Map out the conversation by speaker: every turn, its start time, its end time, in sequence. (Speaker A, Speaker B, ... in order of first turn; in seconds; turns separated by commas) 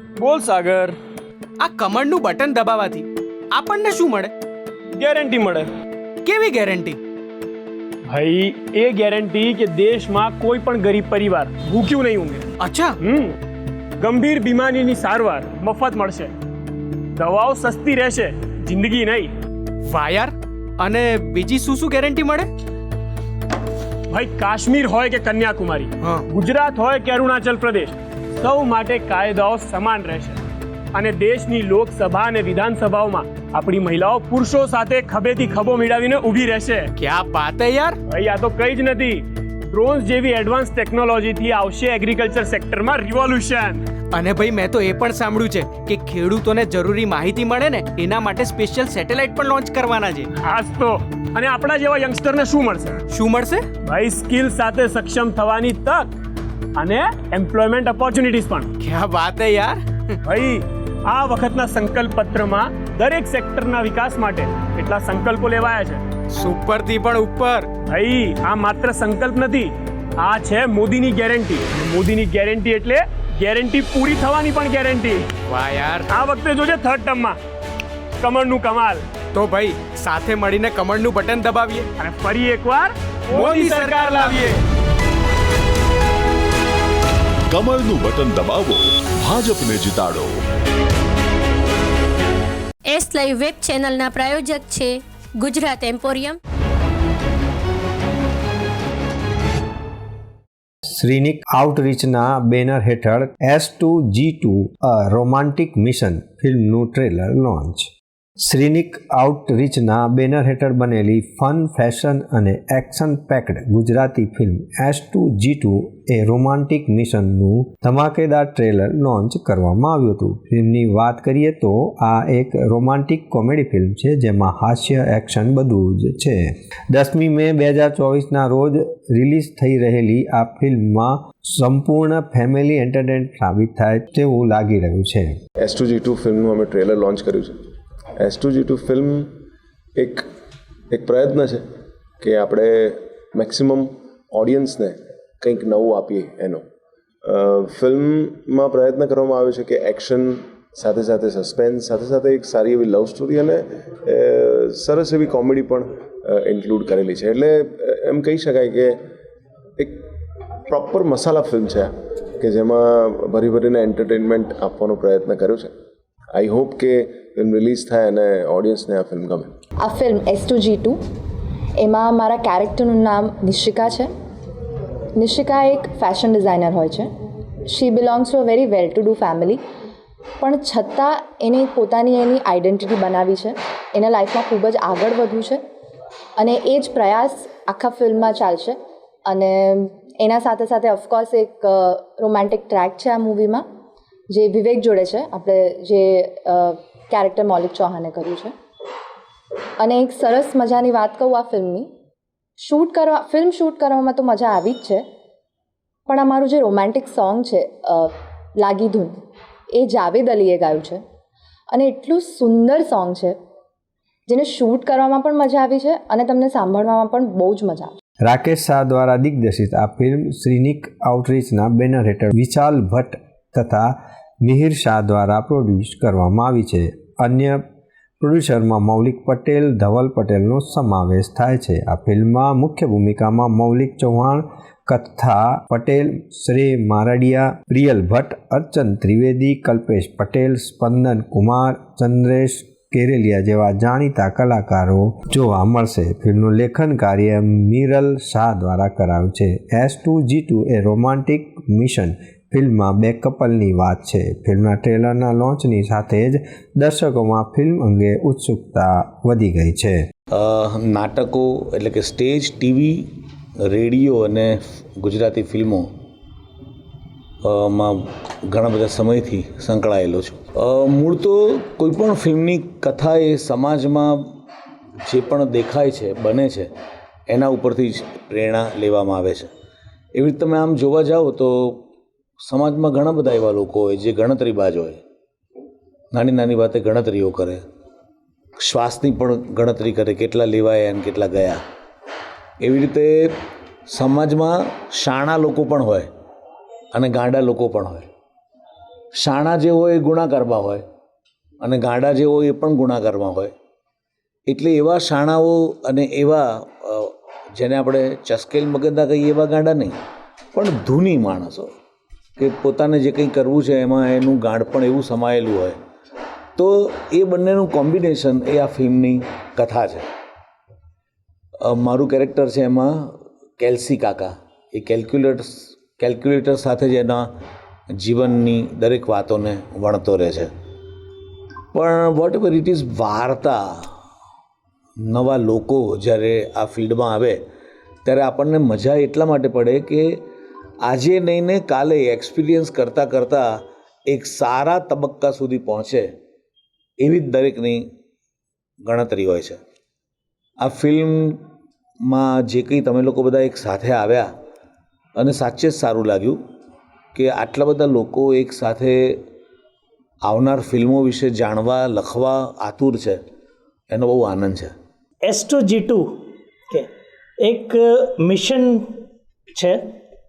Speaker A: 0.2-0.9, Speaker B: 1.6-4.3, Speaker A: 5.0-5.7, Speaker B: 6.2-7.0, Speaker A: 8.1-12.5, Speaker B: 12.6-13.0, Speaker A: 13.0-13.3, Speaker A: 14.0-16.3, Speaker A: 17.2-19.3, Speaker B: 19.9-22.5, Speaker A: 24.1-30.4, Speaker A: 30.9-36.9, Speaker B: 37.0-38.0, Speaker A: 38.1-43.8, Speaker B: 44.1-50.3, Speaker A: 50.4-53.0, Speaker B: 53.1-53.7, Speaker A: 53.9-56.1, Speaker A: 56.8-58.7, Speaker B: 58.8-60.2, Speaker A: 60.3-66.0, Speaker B: 66.3-67.7, Speaker A: 67.9-75.3, Speaker B: 75.5-76.1, Speaker A: 76.1-77.4, Speaker A: 78.2-79.1, Speaker B: 79.3-81.9, Speaker A: 82.0-84.5, Speaker B: 83.3-84.5, Speaker C: 87.7-88.7, Speaker C: 89.3-90.3, Speaker D: 92.9-96.4, Speaker E: 100.9-135.4, Speaker F: 135.6-137.6, Speaker F: 138.2-139.3, Speaker F: 140.0-140.2, Speaker F: 140.9-141.6, Speaker F: 142.2-146.6, Speaker F: 147.2-159.0, Speaker F: 159.8-160.1, Speaker F: 160.7-165.7, Speaker F: 166.3-169.5, Speaker G: 169.8-171.0, Speaker G: 171.8-174.1, Speaker G: 175.2-177.1, Speaker G: 177.7-179.6, Speaker G: 180.4-185.6, Speaker G: 186.4-193.6, Speaker G: 194.3-198.5, Speaker G: 199.8-201.9, Speaker G: 202.6-205.0, Speaker G: 206.1-209.2, Speaker G: 209.8-211.0, Speaker G: 211.7-213.4, Speaker G: 214.3-217.9, Speaker E: 218.2-227.6, Speaker E: 228.2-260.0, Speaker H: 260.3-263.1, Speaker H: 263.7-265.9, Speaker H: 267.4-274.3, Speaker H: 275.1-276.7, Speaker H: 277.3-279.5, Speaker H: 280.2-281.8, Speaker H: 282.5-285.0, Speaker H: 286.1-287.6, Speaker H: 288.6-291.6, Speaker H: 292.6-293.3, Speaker H: 293.9-296.1, Speaker H: 296.9-298.1, Speaker H: 299.2-300.8, Speaker H: 301.6-303.5, Speaker H: 304.5-310.0, Speaker H: 310.6-311.7, Speaker H: 312.4-315.8, Speaker H: 316.6-320.0, Speaker H: 321.7-322.9, Speaker H: 323.6-327.3, Speaker H: 328.0-330.5, Speaker H: 331.7-333.6, Speaker H: 335.1-337.4, Speaker H: 338.1-340.1, Speaker H: 340.9-343.5, Speaker H: 344.1-346.1, Speaker H: 347.0-347.9, Speaker H: 348.9-349.6, Speaker H: 350.6-351.4, Speaker H: 352.1-354.3, Speaker H: 355.2-356.4, Speaker H: 357.1-359.2, Speaker H: 360.3-363.2, Speaker H: 363.9-364.7, Speaker I: 365.2-366.1, Speaker I: 367.4-368.9